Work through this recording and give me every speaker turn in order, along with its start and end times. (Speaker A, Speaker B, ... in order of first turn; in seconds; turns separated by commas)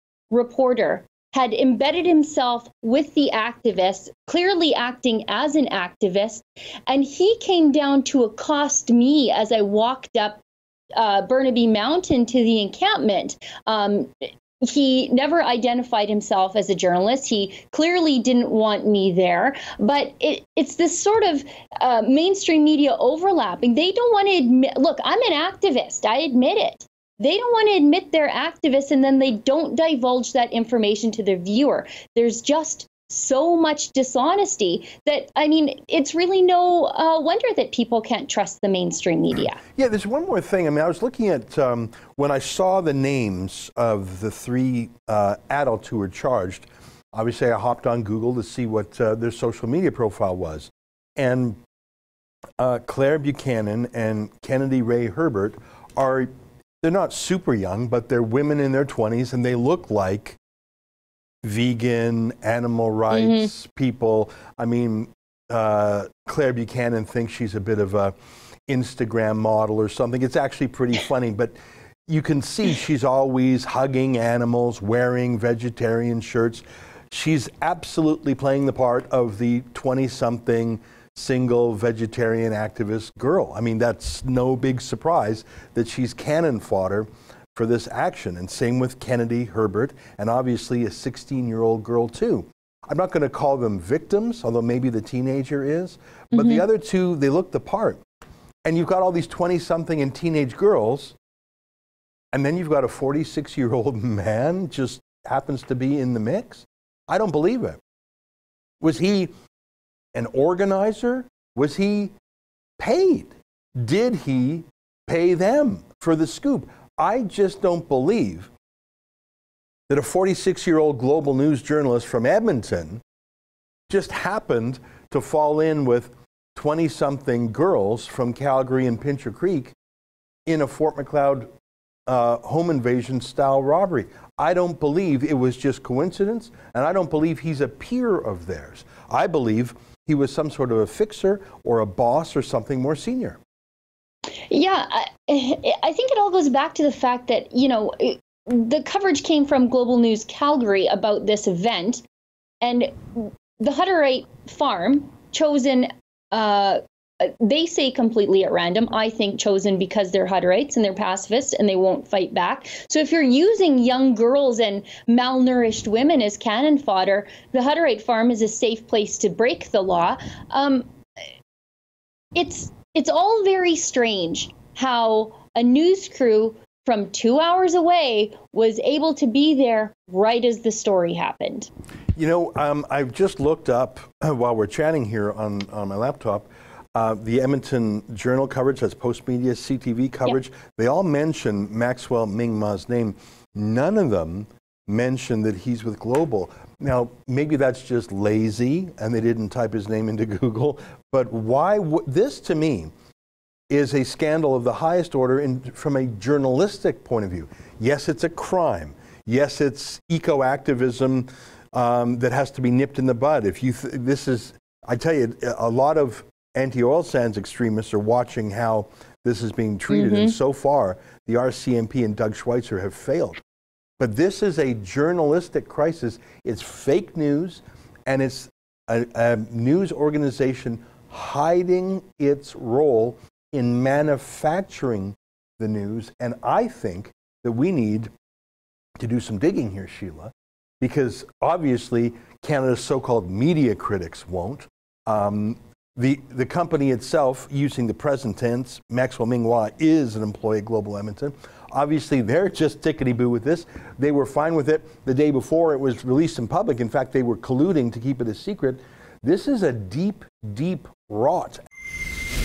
Speaker A: 0.3-10.4, Speaker A: 10.9-39.6, Speaker B: 39.7-51.6, Speaker B: 52.6-56.3, Speaker B: 56.8-60.4, Speaker B: 61.4-68.1, Speaker A: 63.1-63.5, Speaker B: 68.7-71.5, Speaker B: 72.1-98.0, Speaker A: 96.3-96.6, Speaker B: 98.6-101.2, Speaker B: 102.3-107.8, Speaker B: 108.8-109.3, Speaker B: 110.1-112.1, Speaker B: 112.8-118.5, Speaker B: 119.9-123.0, Speaker B: 123.9-129.7, Speaker B: 130.4-131.5, Speaker B: 132.1-143.4, Speaker A: 144.5-152.0, Speaker A: 152.6-170.9, Speaker A: 172.3-181.7, Speaker B: 182.2-202.9, Speaker B: 203.7-223.4, Speaker A: 219.9-220.3, Speaker B: 224.0-238.1, Speaker B: 239.0-261.6